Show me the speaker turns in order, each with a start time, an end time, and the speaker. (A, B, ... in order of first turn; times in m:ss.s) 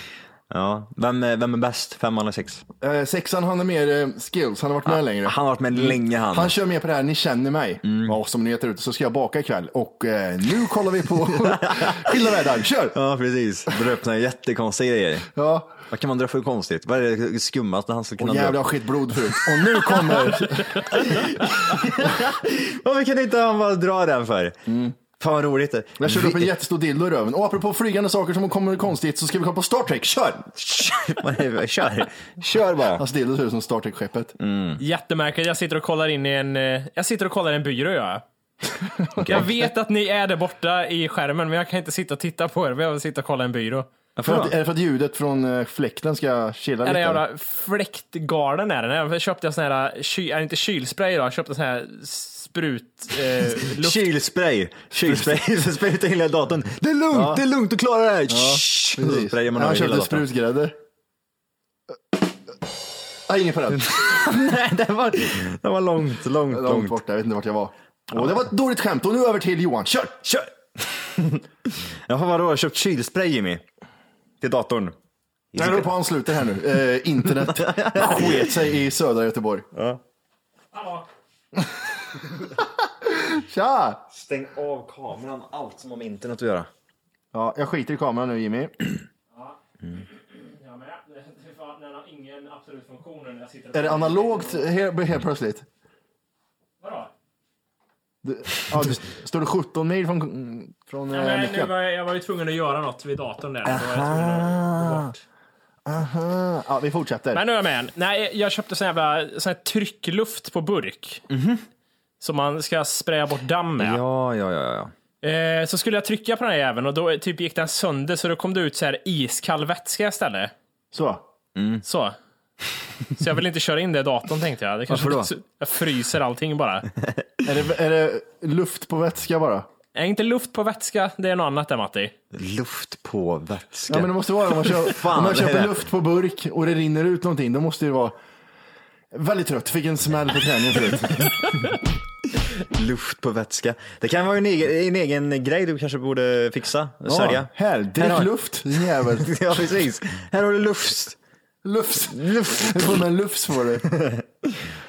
0:00.5-0:02.6 A
0:02.8-0:13.0 B
0:04.8-0:06.5 A
0:07.8-0:08.2 A
0:11.3-0:12.1 A
0:12.9-0:15.3 A
0:15.3-0:15.7 B
0:15.9-0:18.7 A
0:18.2-0:21.8 B
0:19.3-0:24.6 A
0:24.7-0:24.9 B
0:25.2-0:26.5 A
0:26.0-0:30.5 B
0:30.5-0:33.0 A
0:32.9-0:34.4 B
0:34.4-0:34.8 A
0:34.8-0:38.2 C
0:39.2-0:39.5 A
0:39.2-0:43.9 C
0:44.2-0:44.6 A
0:44.2-0:47.2 B
0:46.8-0:54.0 C
0:53.5-1:00.2 A
0:57.1-0:57.4 B
0:58.3-1:00.8 B
1:03.3-1:03.9 B
1:03.7-1:07.0 A
1:06.5-1:10.2 B
1:10.2-1:13.6 A
1:14.4-1:14.9 A
1:15.5-1:15.9 A
1:15.5-1:19.6 B
1:17.2-1:18.6 A
1:19.7-1:20.0 A
1:20.7-1:21.1 C
1:23.0-1:24.0 B
1:24.1-1:26.7 A
1:27.3-1:28.7 B
1:29.3-1:34.6 C
1:33.7-1:35.6 B
1:36.8-1:37.1 C
1:38.2-1:41.7 B
1:41.1-1:45.2 C
1:43.6-1:45.1 A
1:45.8-1:47.4 B
1:47.3-1:51.2 C
1:51.3-1:51.6 A
1:52.2-1:54.0 C
1:53.8-1:54.9 A
1:55.2-2:00.5 C
2:00.9-2:01.2 B
2:01.5-2:01.8 A
2:01.8-2:02.2 C
2:03.1-2:06.9 C
2:04.9-2:05.3 A
2:07.4-2:09.7 B
2:09.9-2:12.1 C
2:12.3-2:15.8 A
2:13.9-2:18.1 B
2:19.1-2:21.5 B
2:22.5-2:31.2 A
2:27.1-2:29.3 B
2:31.6-2:33.9 B
2:32.0-2:33.0 A
2:33.9-2:34.7 A